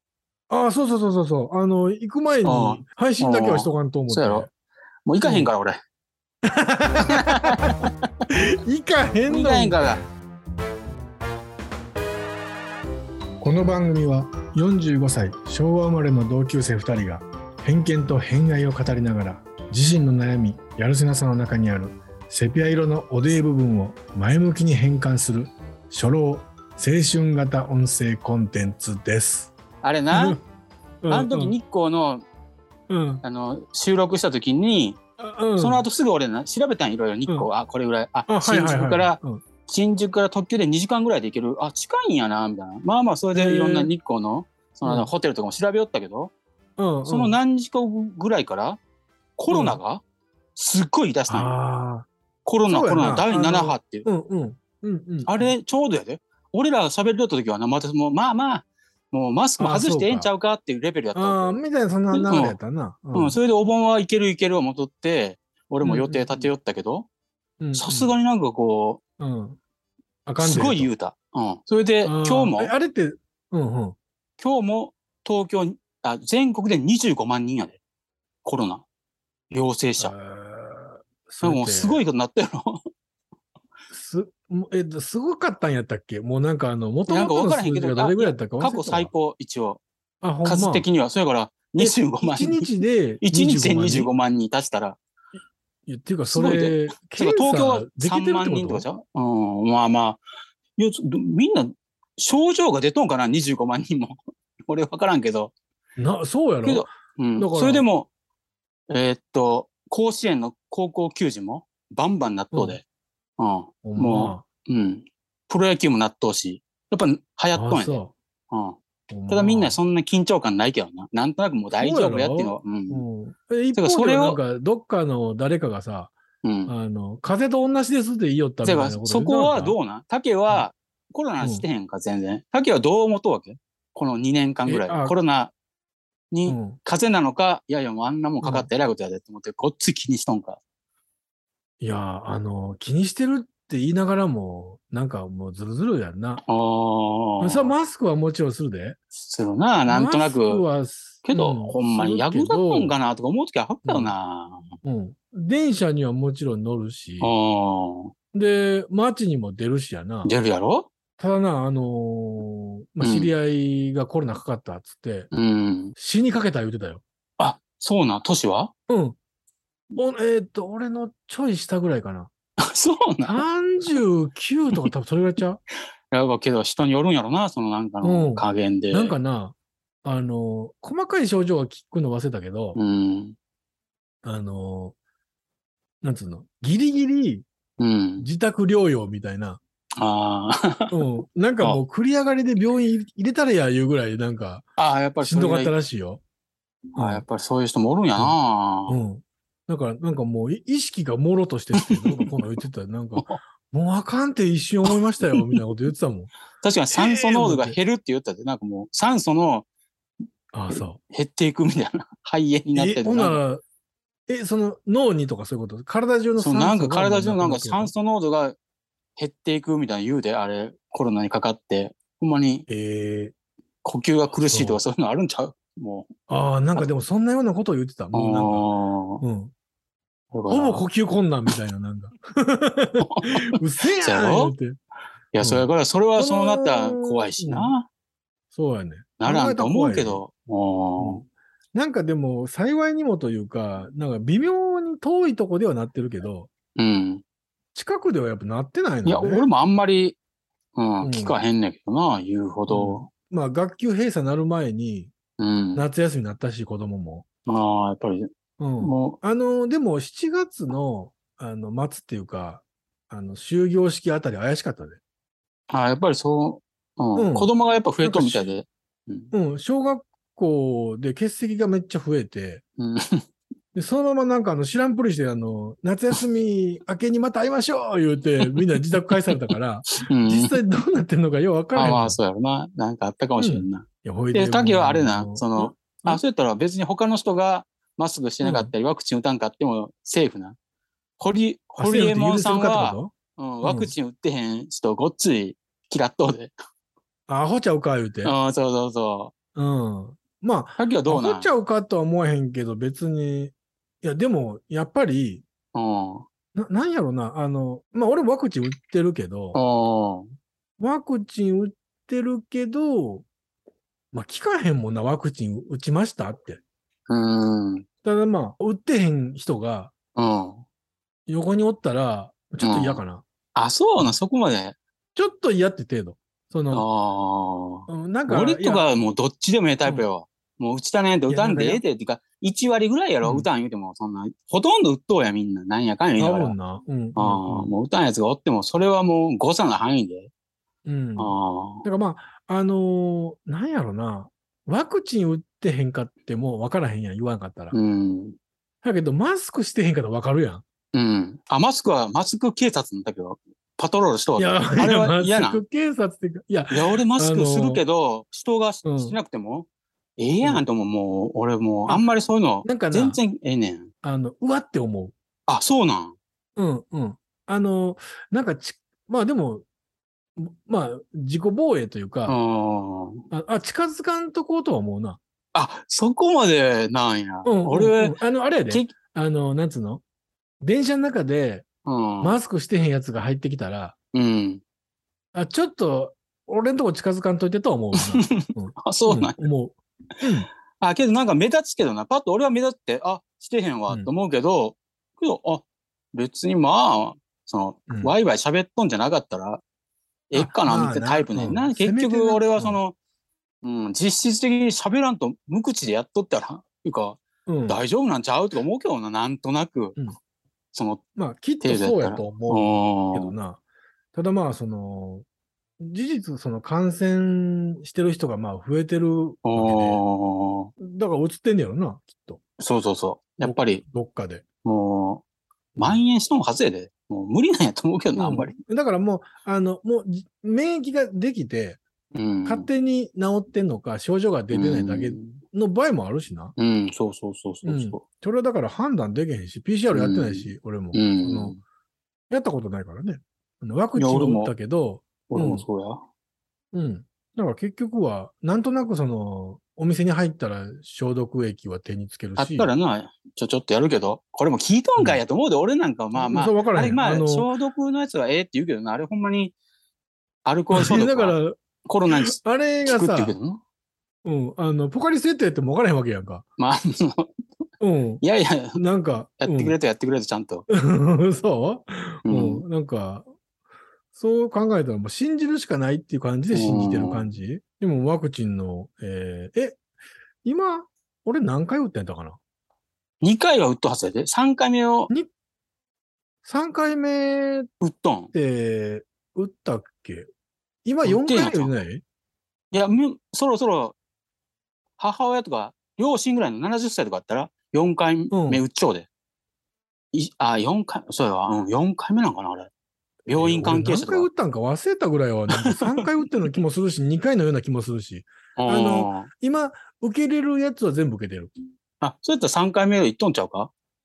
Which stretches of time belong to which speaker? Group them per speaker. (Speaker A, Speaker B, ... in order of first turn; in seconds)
Speaker A: 0.5-4.5, 5.2-5.5, 6.5-7.6, 8.3-9.8, 13.4-29.5, 30.1-30.4, 31.0-31.6, 32.9-33.2, 35.2-35.8, 38.3-39.4, 43.3-43.9, 44.8-45.1, 46.8-47.4, 49.5-49.8, 51.3-52.1, 52.6-55.5, 59.6-60.3, 61.1-63.4, 65.8-66.5, 67.6-68.1, 69.2-69.6, 70.2-70.9, 72.0-74.0, 80.0-82.0, 83.9-89.1, 90.2-90.9, 91.8-94.1, 95.9-98.9, 106.0-107.8, 112.5-112.8, 113.8-114.4, 117.5-118.1, 119.1-119.8, 121.8-126.1, 126.7-129.8, 131.4-131.7, 134.7-135.1, 136.5-136.8, 138.4-138.7, 141.8-146.4, 147.4-149.0, 149.9-152.9, 153.8-154.1, 154.8-157.3, 158.3-160.3, 161.2-165.3, 165.9-167.0, 168.9-169.2, 169.9-172.3, 173.2-175.6, 178.0-182.8, 184.2-184.9, 186.0-187.4, 188.2-189.6, 190.9-194.7, 195.2-196.2, 196.9-197.2, 198.2-206.3, 206.9-207.8, 210.5-211.0, 212.7-213.6, 214.3-217.9, 222.7-223.3, 224.4-224.8, 226.3-228.7, 229.2-229.5, 230.5-234.8, 235.4-235.7, 236.2-237.7, 238.5-240.2, 241.0-241.2, 241.7-246.5, 247.7-249.5, 251.0-251.4, 252.7-255.1, 255.7-257.2, 258.6-265.0, 267.1-267.5, 268.0-268.5, 269.3-272.6, 273.7-282.2, 283.4-286.2, 288.4-288.7, 291.8-293.9, 297.3-298.3, 299.5-305.4, 306.5-309.6, 310.8-313.2, 314.1-316.6, 318.0-319.9, 321.3-323.2, 325.1-326.9, 327.9-328.9, 331.3-331.8, 333.2-333.5, 336.2-337.7, 340.8-347.8, 348.8-350.6, 354.4-357.8, 358.8-359.2, 362.6-363.2, 364.0-365.1, 366.6-369.6, 370.4-372.4, 373.3-375.2, 377.4-380.0, 380.6-381.6, 382.2-383.9, 385.3-390.5, 397.9-398.1, 400.3-402.8, 407.4-407.8, 411.1-413.6, 414.1-415.2, 415.8-420.0, 420.8-422.4, 423.4-424.4, 425.8-426.0, 428.1-431.8, 432.4-436.5, 437.6-441.6, 442.3-445.6, 446.7-452.7, 455.0-455.2, 456.1-457.5, 460.7-461.5, 462.1-463.4, 464.2-466.4, 467.8-468.2, 468.7-469.8, 470.7-473.3, 474.1-479.8, 480.4-482.4, 486.4-487.7, 488.3-490.3, 490.8-492.0, 498.3-498.6, 503.3-511.5
Speaker B: 2.4-4.5, 5.0-5.8, 7.0-7.9, 9.3-10.0, 29.8-30.4, 31.1-32.2, 33.2-35.0, 35.6-46.3, 47.0-48.8, 49.4-50.0, 50.5-51.5, 52.4-54.0, 55.2-62.6, 63.1-67.1, 67.7-69.0, 70.4-72.7, 74.4-77.8, 78.4-78.8, 79.5-80.1, 81.4-82.8, 87.1-89.8, 90.4-95.0, 96.2-100.2, 100.8-105.5, 106.6-108.1, 108.9-112.8, 113.4-118.8, 119.3-123.0, 123.7-124.4, 126.4-126.7, 128.6-135.5, 136.3-140.6, 146.5-147.7, 149.2-150.6, 151.2-154.7, 157.2-158.1, 160.2-160.9, 163.0-163.3, 165.3-165.9, 167.4-168.7, 172.6-173.4, 176.1-179.2, 182.7-183.3, 187.8-188.3, 190.0-190.9, 194.8-195.7, 196.9-199.0, 201.8-202.3, 204.9-205.6, 206.6-209.6, 210.7-213.4, 216.4-218.6, 219.2-222.7, 223.8-226.1, 228.1-229.2, 230.3-230.8, 233.0-234.5, 235.3-237.9, 239.2-241.2, 246.8-247.2, 249.0-250.2, 250.7-253.1, 255.4-255.8, 257.4-258.3, 258.8-259.2, 265.7-269.3, 272.8-273.2, 279.3-279.5, 280.1-280.6, 281.7-290.6, 291.2-296.5, 298.2-299.3, 300.8-301.5, 305.7-306.2, 309.5-310.3, 317.1-317.8, 320.1-320.6, 322.6-323.0, 323.5-324.8, 326.7-336.6, 337.1-340.3, 341.2-341.8, 347.7-348.4, 350.9-355.6, 356.7-363.9, 365.5-366.1, 372.3-373.2, 375.5-378.9, 381.8-382.4, 384.1-384.6, 388.1-389.4, 390.8-399.6, 400.3-402.9, 403.6-410.0, 410.7-411.0, 411.6-413.3, 419.4-420.7, 422.6-423.8, 424.6-425.2, 425.8-428.6, 432.1-432.7, 434.5-435.4, 436.6-438.0, 439.9-441.6, 443.9-444.5, 445.3-446.0, 452.4-459.5, 460.4-463.6, 466.6-467.3, 468.2-468.8, 469.4-470.6, 472.2-472.6, 476.5-477.3, 483.2-485.1, 487.8-488.3, 491.0-491.7, 492.7-493.9, 495.0-499.1, 500.1-502.7, 503.3-504.3, 508.6-509.3, 512.0-513.7